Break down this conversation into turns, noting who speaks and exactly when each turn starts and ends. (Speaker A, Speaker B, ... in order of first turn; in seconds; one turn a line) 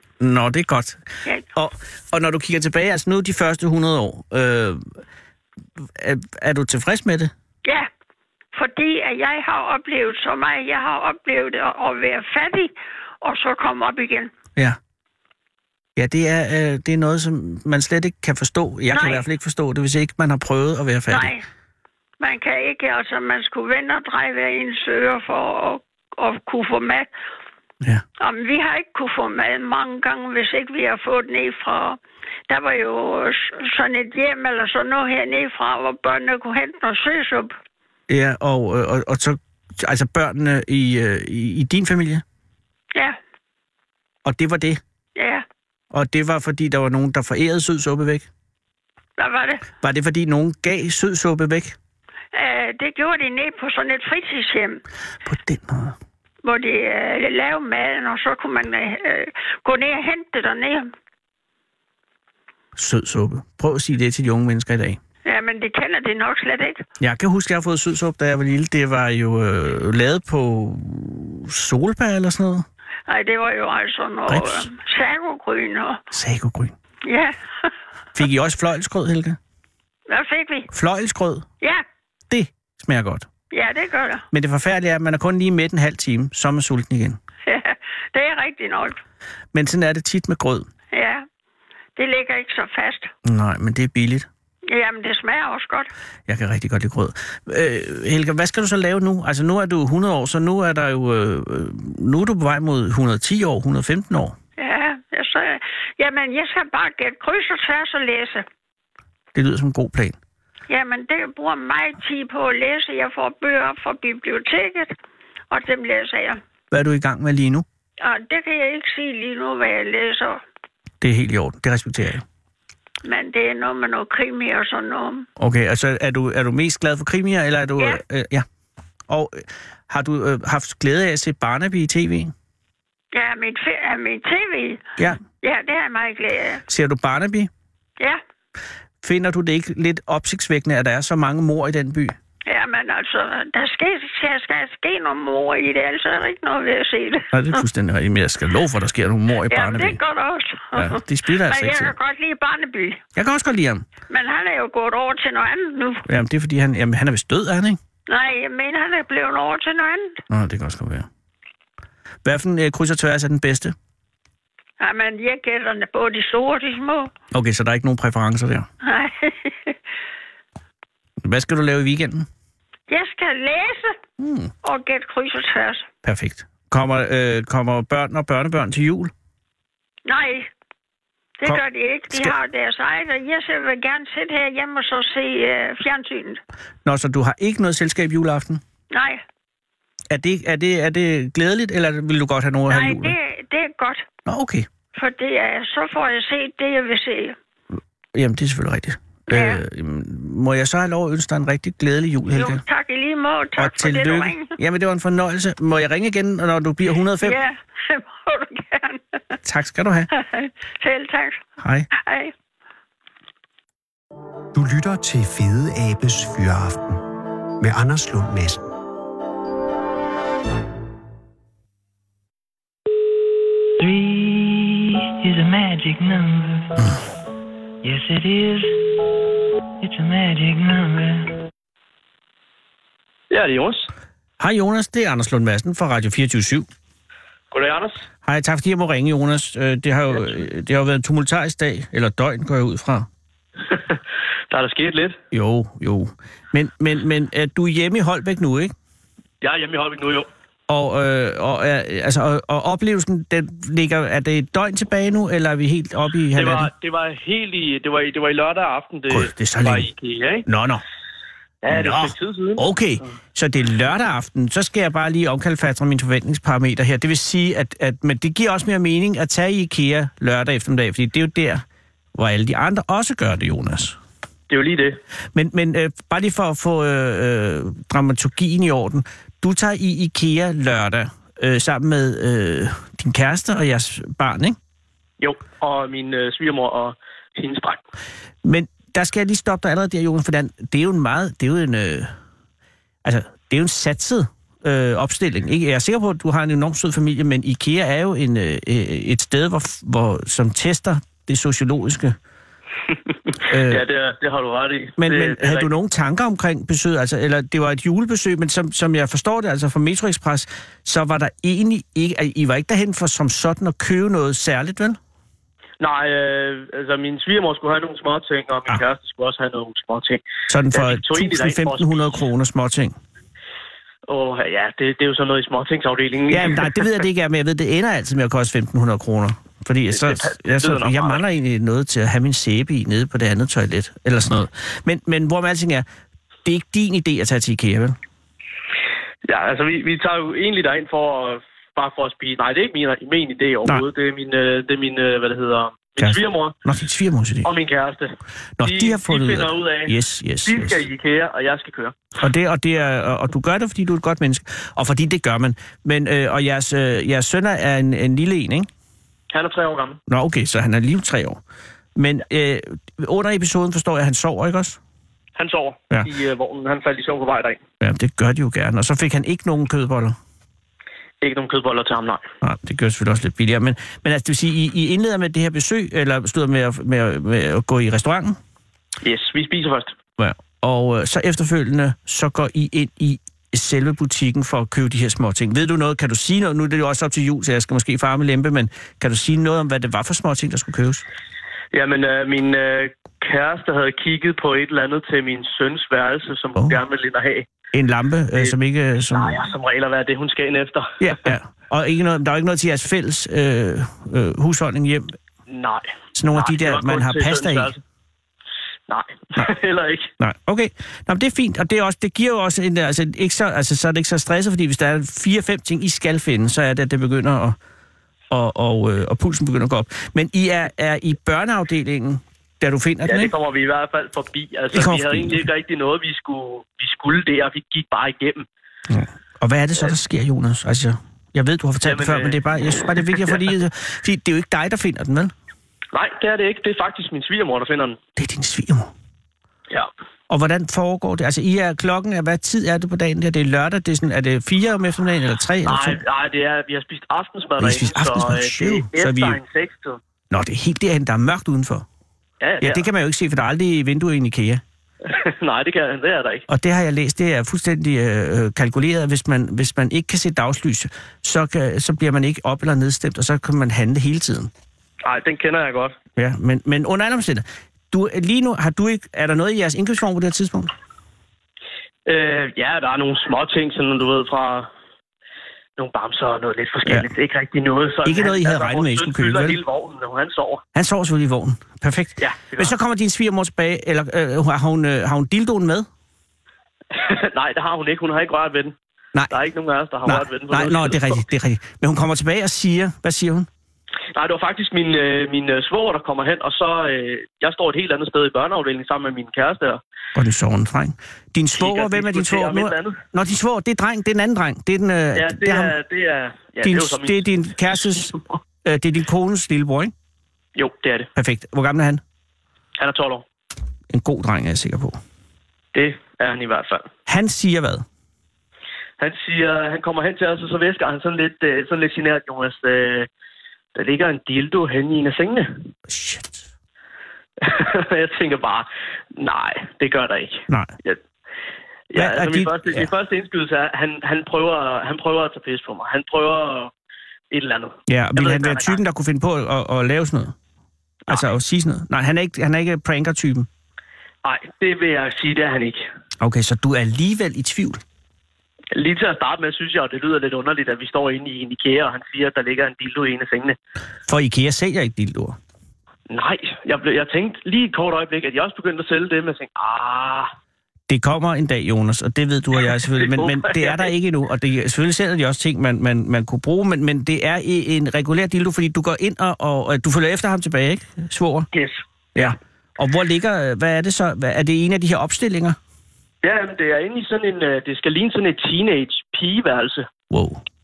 Speaker A: 0.2-1.0
Speaker A: 1.5-5.0
Speaker A: 6.0-7.3
Speaker B: 8.5-14.3
Speaker A: 15.9-21.3
Speaker B: 18.9-19.2
Speaker B: 21.1-21.4
Speaker B: 22.2-27.1
Speaker B: 28.2-37.5
Speaker A: 38.1-42.2
Speaker A: 44.2-44.8
Speaker B: 45.1-45.4
Speaker A: 45.9-48.3
Speaker B: 49.2-49.6
Speaker A: 49.8-51.8
Speaker B: 52.3-54.8
Speaker A: 55.2-56.0
Speaker B: 56.4-60.9
Speaker A: 62.7-65.0
Speaker B: 65.2-66.8
Speaker A: 67.0-72.7
Speaker B: 73.1-76.0
Speaker A: 74.3-74.7
Speaker A: 76.1-76.7
Speaker B: 77.0-77.7
Speaker A: 78.1-79.4
Speaker B: 80.1-80.7
Speaker A: 80.7-81.5
Speaker A: 82.3-83.3
Speaker B: 83.5-84.2
Speaker A: 84.3-87.2
Speaker B: 87.5-89.0
Speaker A: 89.5-90.7
Speaker B: 90.9-91.2
Speaker B: 92.0-93.1
Speaker A: 93.2-94.3
Speaker B: 94.7-95.9
Speaker A: 96.3-104.3
Speaker B: 104.6-108.5
Speaker A: 109.3-110.2
Speaker B: 110.7-114.9
Speaker B: 115.5-116.4
Speaker A: 116.7-117.6
Speaker B: 118.0-120.4
Speaker A: 121.0-122.2
Speaker B: 123.0-125.3
Speaker A: 125.4-128.4
Speaker A: 129.1-132.3
Speaker B: 133.1-134.8
Speaker B: 135.4-136.6
Speaker A: 136.7-137.5
Speaker A: 139.0-142.2
Speaker B: 142.4-147.6
Speaker A: 147.3-150.0
Speaker B: 149.5-153.0
Speaker A: 150.7-151.9
Speaker A: 153.1-153.8
Speaker B: 154.1-156.0
Speaker A: 156.1-157.8
Speaker B: 158.1-160.2
Speaker A: 160.3-161.1
Speaker A: 162.2-163.7
Speaker B: 164.8-167.1
Speaker A: 167.3-168.7
Speaker B: 168.8-169.8
Speaker A: 171.2-172.3
Speaker B: 172.9-174.0
Speaker A: 174.2-174.5
Speaker B: 174.6-175.9
Speaker A: 176.0-179.1
Speaker B: 180.1-180.5
Speaker B: 181.4-186.4
Speaker A: 181.4-182.3
Speaker A: 186.8-188.6
Speaker B: 188.9-189.2
Speaker A: 190.1-193.1
Speaker B: 192.7-194.1
Speaker A: 194.2-194.7
Speaker B: 194.9-197.4
Speaker A: 198.1-202.6
Speaker B: 199.3-199.6
Speaker B: 202.3-204.6
Speaker A: 203.6-207.4
Speaker B: 207.2-209.4
Speaker A: 209.4-210.1
Speaker B: 210.1-211.4
Speaker A: 211.6-211.9
Speaker B: 211.9-212.3
Speaker C: 214.5-217.0
Speaker C: 217.6-218.6
Speaker D: 223.8-226.8
Speaker D: 227.8-228.8
Speaker D: 229.8-231.4
Speaker E: 233.3-233.9
Speaker A: 234.4-236.7
Speaker E: 237.5-238.0
Speaker A: 238.2-243.1
Speaker E: 243.7-244.0
Speaker E: 244.5-245.2
Speaker A: 245.3-248.7
Speaker E: 249.4-250.3
Speaker A: 250.7-256.7
Speaker E: 256.3-260.4
Speaker A: 259.1-259.9
Speaker A: 260.4-260.8
Speaker E: 261.6-262.6
Speaker A: 261.7-271.6
Speaker A: 272.1-274.0
Speaker E: 274.5-275.0
Speaker A: 275.3-284.6
Speaker E: 285.2-287.8
Speaker A: 288.4-292.1
Speaker A: 293.0-302.2
Speaker A: 303.4-303.8
Speaker E: 303.5-305.7
Speaker A: 305.0-315.0
Speaker E: 315.8-322.1
Speaker A: 320.5-323.0
Speaker E: 324.1-326.9
Speaker A: 326.3-335.9
Speaker E: 329.9-331.2
Speaker A: 336.4-338.0
Speaker E: 339.3-346.5
Speaker A: 346.0-347.5
Speaker E: 347.4-352.0
Speaker A: 348.6-350.8
Speaker A: 352.2-358.7
Speaker E: 359.3-360.0
Speaker A: 360.1-361.4
Speaker A: 361.9-364.8
Speaker E: 365.4-367.6
Speaker A: 367.8-370.2
Speaker E: 371.2-372.2
Speaker A: 372.4-378.4
Speaker E: 379.0-379.9
Speaker A: 380.2-391.0
Speaker E: 391.7-397.5
Speaker A: 397.7-399.4
Speaker E: 399.1-401.3
Speaker A: 401.0-405.1
Speaker E: 405.5-407.8
Speaker A: 406.1-407.7
Speaker E: 408.9-410.1
Speaker A: 410.2-417.6
Speaker A: 418.3-423.3
Speaker E: 423.0-428.4
Speaker A: 424.7-425.5
Speaker A: 428.9-435.3
Speaker E: 431.8-433.4
Speaker E: 435.9-438.0
Speaker A: 438.2-438.9
Speaker A: 440.3-446.0
Speaker E: 445.6-450.0
Speaker A: 447.6-449.4
Speaker A: 450.3-451.9
Speaker E: 452.4-452.9
Speaker A: 452.6-454.6
Speaker E: 455.0-456.4
Speaker A: 456.5-464.5
Speaker E: 465.0-465.9
Speaker A: 466.2-470.7
Speaker E: 472.1-474.7
Speaker E: 475.8-480.6
Speaker A: 478.0-479.6
Speaker A: 480.7-485.9
Speaker E: 482.2-482.7
Speaker E: 486.9-488.7
Speaker E: 489.3-491.2
Speaker A: 490.0-493.5
Speaker E: 494.1-499.8
Speaker A: 500.1-505.7
Speaker E: 501.5-503.0
Speaker E: 505.1-508.4
Speaker A: 506.6-509.9
Speaker E: 510.6-511.1
Speaker A: 511.1-512.0
Speaker E: 512.8-513.2
Speaker A: 513.9-515.0
Speaker E: 515.7-516.9
Speaker A: 517.1-517.8
Speaker E: 519.0-523.1
Speaker E: 523.7-525.7
Speaker A: 525.9-526.5
Speaker E: 527.4-531.0
Speaker E: 531.9-536.7
Speaker A: 531.9-532.9
Speaker E: 537.3-538.8
Speaker A: 537.9-540.3
Speaker A: 541.1-543.5
Speaker E: 544.2-545.8
Speaker A: 546.2-547.8
Speaker E: 548.7-553.6
Speaker A: 554.1-555.4
Speaker E: 556.1-560.3
Speaker A: 560.9-571.5
Speaker E: 562.8-563.9
Speaker E: 571.5-572.4
Speaker A: 572.1-575.6
Speaker E: 576.2-579.9
Speaker A: 580.1-580.4